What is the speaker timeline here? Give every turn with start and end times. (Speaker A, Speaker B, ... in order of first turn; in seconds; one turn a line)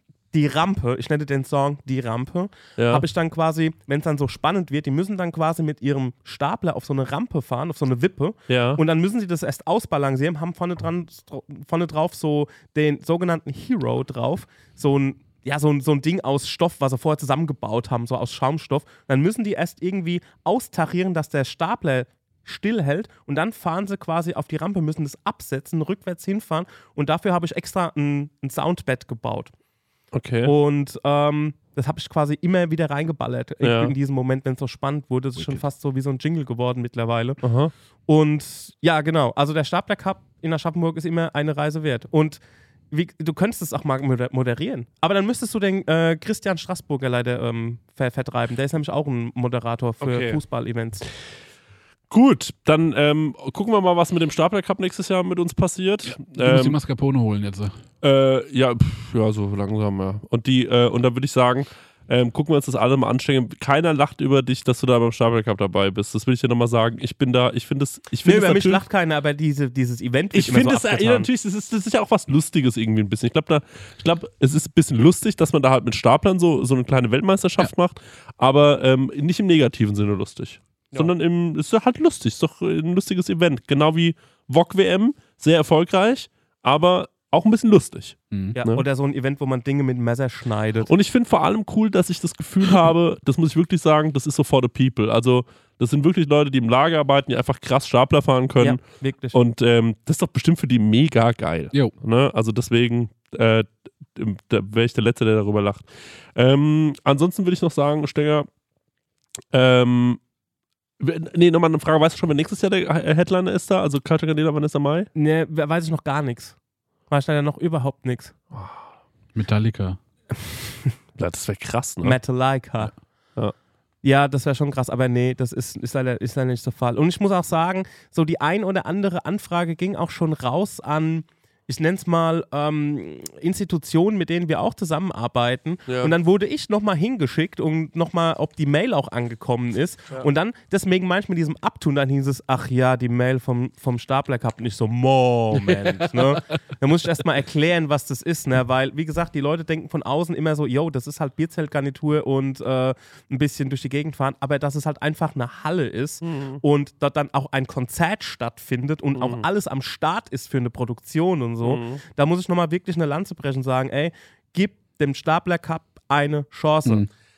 Speaker A: 0.3-29.5
Speaker B: 2.8-3.0
Speaker B: 8.5-8.8
Speaker B: 30.1-30.5
Speaker A: 30.4-37.4
Speaker B: 33.6-33.9
Speaker B: 37.4-37.7
Speaker A: 38.1-42.4
Speaker A: 42.9-51.1
Speaker B: 50.0-50.4
Speaker B: 52.1-56.8
Speaker C: 56.1-57.8
Speaker B: 58.0-68.8
Speaker A: 68.2-71.3
Speaker B: 70.3-88.8
Speaker A: 88.5-90.9
Speaker B: 90.8-98.8
Speaker A: 98.6-99.4
Speaker B: 99.3-105.8
Speaker B: 106.4-108.5
Speaker B: 109.5-110.2
Speaker B: 111.0-115.1
Speaker A: 115.2-116.6
Speaker A: 117.1-118.3
Speaker B: 118.5-118.8
Speaker C: 119.3-120.0
Speaker B: 121.2-122.2
Speaker A: 122.0-122.9
Speaker A: 124.0-167.1
Speaker B: 135.9-136.1
Speaker B: 156.2-156.6
Speaker B: 159.2-159.5
Speaker B: 161.6-162.0